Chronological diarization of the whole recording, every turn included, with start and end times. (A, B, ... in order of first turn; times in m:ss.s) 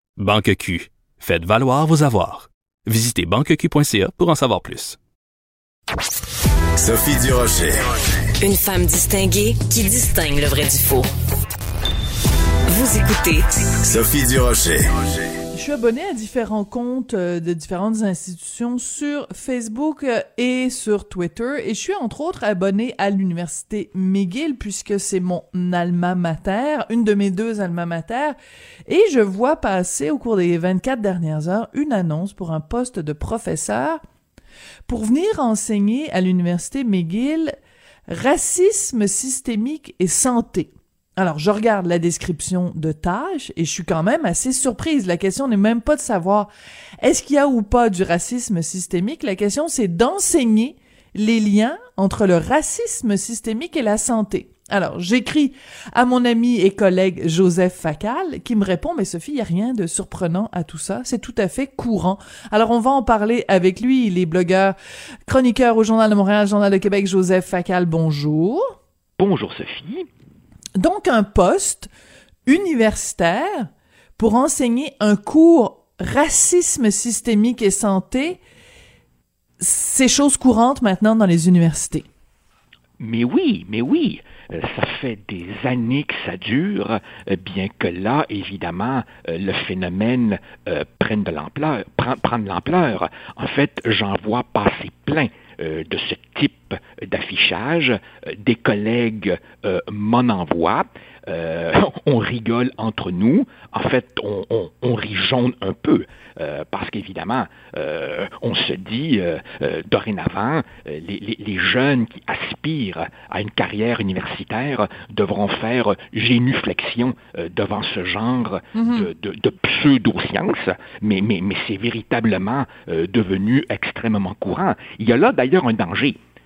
0:00.2-0:05.0 A
0:06.8-0:07.7 B
0:08.4-0:11.1 C
0:12.7-0:13.5 C
0:13.9-0:14.8 B
0:15.5-0:28.4 D
0:28.9-0:34.0 D
0:34.9-0:37.5 D
0:38.1-1:08.6 D
1:09.2-1:10.0 E
1:10.8-1:11.9 D
1:12.4-1:18.4 D
1:19.6-1:22.0 D
1:23.0-2:06.2 E
1:58.7-1:59.1 D